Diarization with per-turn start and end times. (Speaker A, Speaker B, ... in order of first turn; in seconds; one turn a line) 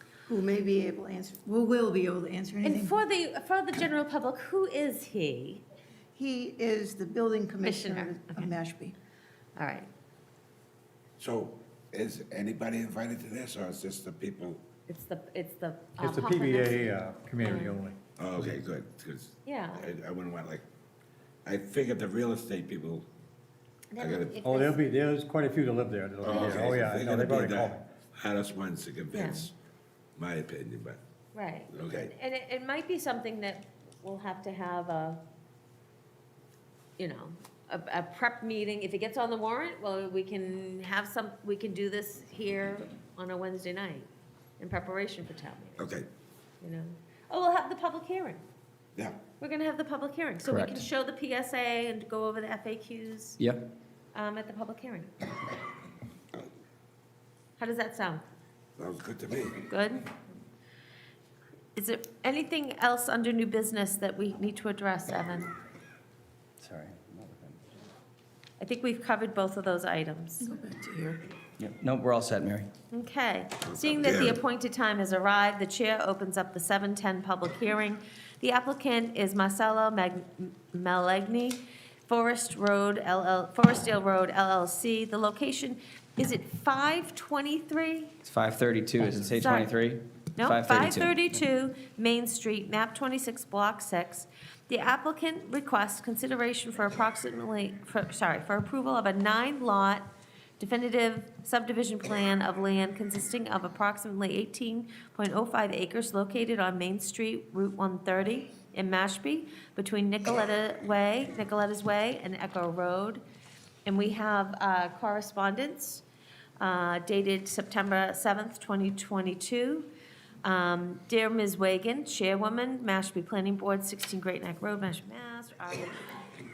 Speaker A: 0.3-3.0
Speaker B: 2.6-5.6
Speaker A: 6.2-9.0
Speaker B: 7.6-8.5
Speaker B: 9.6-9.9
Speaker C: 11.2-14.6
Speaker B: 14.9-17.8
Speaker D: 16.0-18.0
Speaker C: 18.2-20.6
Speaker B: 19.5-19.9
Speaker C: 21.4-23.1
Speaker B: 23.9-24.8
Speaker C: 24.0-24.3
Speaker D: 24.4-27.8
Speaker B: 26.3-26.7
Speaker C: 26.3-29.6
Speaker B: 29.1-29.5
Speaker C: 30.2-31.0
Speaker B: 31.3-35.2
Speaker C: 31.7-32.1
Speaker B: 37.0-44.1
Speaker B: 44.6-45.9
Speaker C: 45.8-46.1
Speaker B: 46.6-48.4
Speaker B: 49.4-53.4
Speaker E: 50.5-50.8
Speaker B: 54.1-55.1
Speaker B: 57.6-58.2
Speaker C: 58.8-59.6
Speaker B: 59.7-60.1
Speaker B: 61.8-65.5
Speaker E: 66.6-67.6
Speaker B: 68.6-70.5
Speaker A: 70.4-71.3
Speaker E: 71.6-72.7
Speaker B: 72.9-88.1
Speaker C: 73.6-74.4
Speaker E: 88.2-91.3
Speaker B: 89.2-89.7
Speaker B: 90.4-100.1
Speaker B: 100.6-113.2
Speaker B: 113.8-116.0
Speaker B: 116.6-119.9
Speaker B: 120.4-126.1